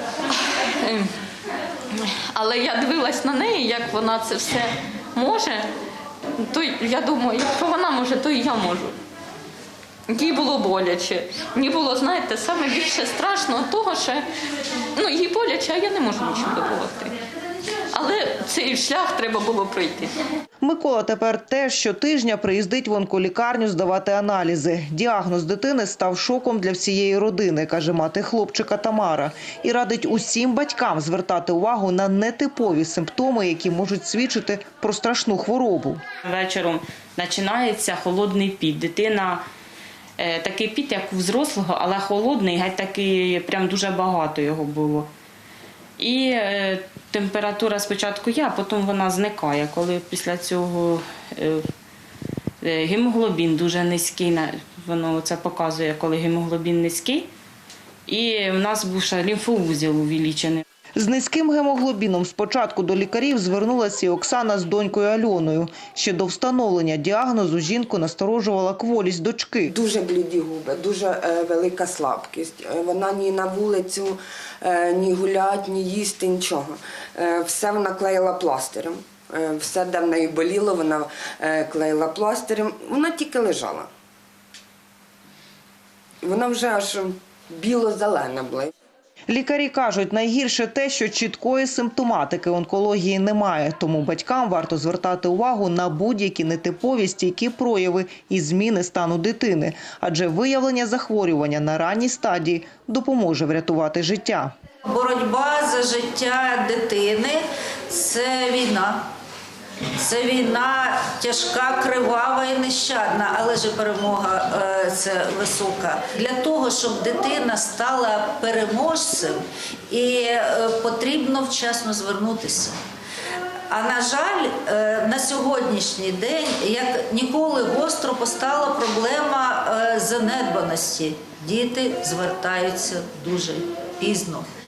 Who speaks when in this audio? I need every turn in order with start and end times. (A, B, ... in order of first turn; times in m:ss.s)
0:00.5-0:01.1 A
0:01.9-0:05.7 A
0:06.4-0:09.0 A
0:10.1-0:14.2 A
0:15.0-0:17.1 A
0:17.9-0:20.1 A
0:20.6-0:36.0 B
0:36.2-0:39.4 C
0:40.2-0:45.1 C
0:46.0-0:51.6 C
0:52.6-0:57.3 C
0:58.1-1:00.6 C
1:01.0-1:09.7 B
1:09.7-1:23.9 D
1:26.2-1:28.7 D
1:29.3-1:44.5 B
1:44.8-1:49.0 E
1:50.0-1:59.4 E
1:59.9-2:02.8 E
2:03.7-2:14.4 E